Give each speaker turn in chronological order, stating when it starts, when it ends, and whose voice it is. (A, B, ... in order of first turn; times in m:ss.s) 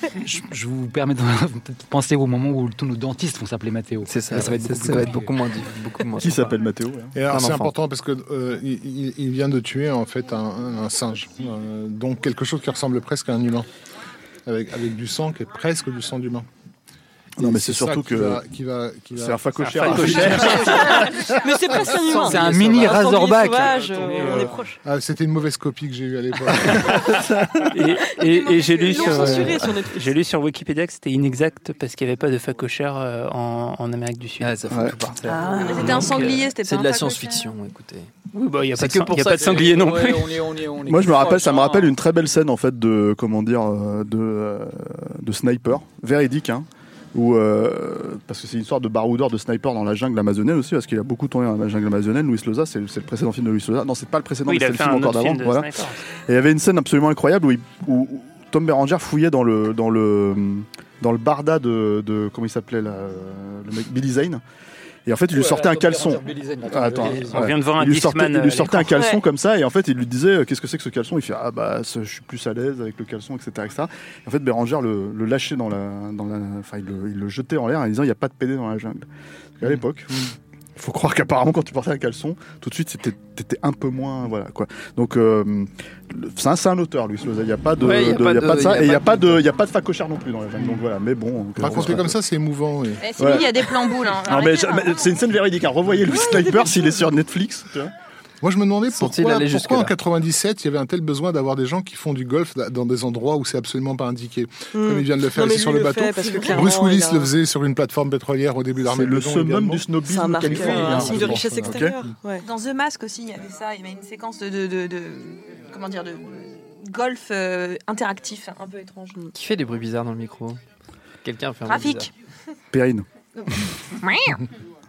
0:00.2-0:05.3 A
0:04.0-0:06.6 B
0:06.2-0:07.1 C
0:07.1-0:13.7 D
0:07.3-0:07.7 B
0:14.4-0:16.5 D
0:17.4-0:20.4 D
0:17.4-0:18.4 C
0:19.1-0:21.0 C
0:19.6-0:21.0 E
0:20.4-0:24.8 F
0:21.8-0:23.0 D
0:22.1-0:24.6 A
0:24.8-0:27.1 D
0:26.6-0:27.6 C
0:27.7-0:34.6 E
0:28.2-0:29.6 G
0:28.8-0:30.2 F
0:34.4-0:38.1 B
0:34.7-0:35.1 C
0:35.3-0:37.5 G
0:35.6-0:36.4 E
0:38.3-0:40.4 E
0:38.7-0:39.7 B
0:39.2-0:41.9 A
0:40.8-0:55.7 C
0:54.4-0:56.0 E
0:56.3-1:04.4 C
1:05.0-1:19.1 C
1:05.3-1:07.5 A
1:07.3-1:09.0 E
1:08.9-1:09.2 F
1:19.6-1:32.2 C
1:27.8-1:29.4 B
1:31.6-1:33.0 D
1:31.6-1:32.0 B
1:33.0-1:35.1 G
1:33.2-1:37.9 C
1:36.0-1:37.0 F
1:38.4-1:49.9 D
1:38.9-1:39.9 B
1:44.7-1:47.3 F
1:48.8-1:51.9 C
1:50.0-1:52.4 F
1:50.4-1:51.9 D
1:52.4-1:59.2 G
1:59.3-2:00.6 B
2:01.2-2:02.1 B
2:01.6-2:02.1 G
2:02.7-2:03.0 C
2:03.4-2:04.4 G